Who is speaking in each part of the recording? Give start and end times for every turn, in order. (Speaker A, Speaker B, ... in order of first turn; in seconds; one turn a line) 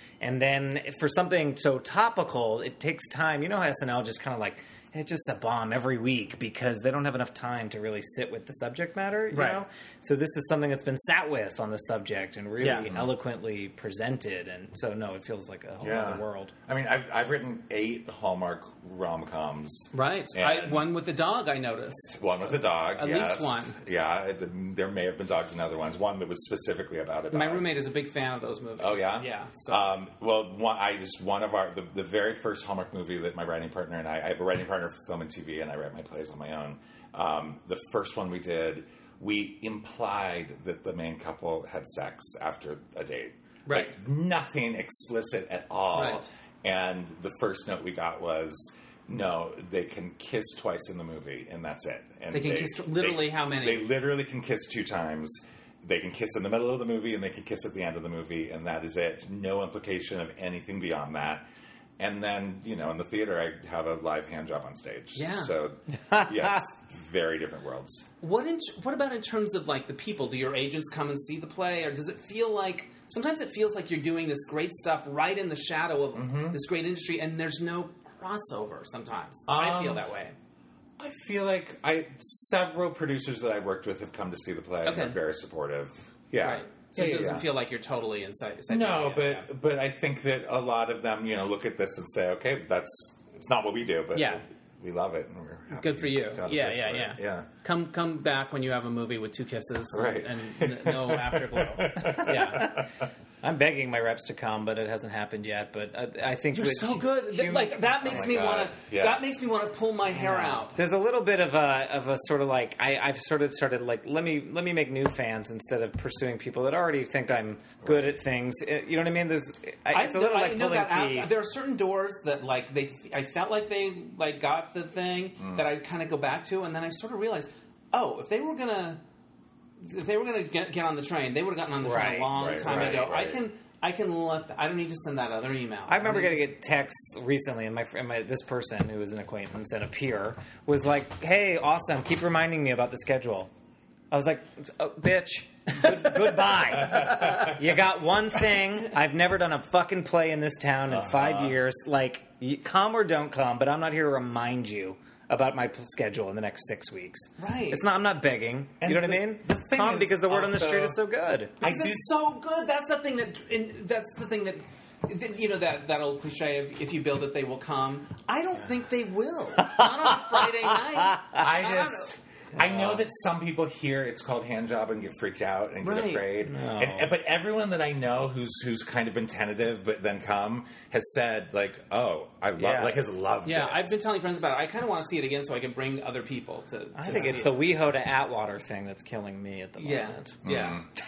Speaker A: 0.2-16.5
Speaker B: 9.3-9.6
Speaker B: 12.6-12.9
Speaker C: 12.8-13.1
Speaker C: 15.8-20.9
Speaker B: 19.9-22.2
Speaker C: 22.1-27.7
Speaker B: 22.9-23.8
Speaker B: 27.3-30.0
Speaker C: 28.8-61.4
Speaker B: 43.6-43.9
Speaker B: 45.9-46.3
Speaker B: 52.3-53.9
Speaker C: 62.0-68.1
Speaker B: 65.1-65.5
Speaker A: 66.1-66.6
Speaker B: 68.2-80.3
Speaker C: 76.1-76.6
Speaker C: 79.5-80.0
Speaker C: 81.0-87.5
Speaker B: 84.8-85.2
Speaker B: 86.4-89.5
Speaker C: 88.7-97.5
Speaker B: 94.1-94.4
Speaker B: 95.7-102.8
Speaker C: 99.9-102.9
Speaker A: 102.2-102.9
Speaker A: 103.4-107.8
Speaker B: 106.5-110.8
Speaker C: 108.0-109.2
Speaker A: 110.2-121.3
Speaker C: 117.8-118.1
Speaker B: 119.9-129.0
Speaker C: 125.4-125.7
Speaker B: 129.8-136.5
Speaker A: 131.8-132.3
Speaker C: 132.3-133.4
Speaker A: 135.9-143.5
Speaker A: 144.1-161.6
Speaker C: 146.7-147.5
Speaker B: 147.1-147.5
Speaker C: 150.9-151.6
Speaker B: 157.4-157.8
Speaker C: 158.8-161.0
Speaker C: 161.6-162.0
Speaker B: 161.6-172.1
Speaker A: 169.6-171.4
Speaker C: 171.3-183.9
Speaker A: 172.6-173.0
Speaker B: 175.8-176.3
Speaker A: 176.4-177.1
Speaker A: 182.6-183.1
Speaker B: 183.4-187.6
Speaker A: 186.9-190.4
Speaker B: 189.8-190.8
Speaker C: 190.4-190.9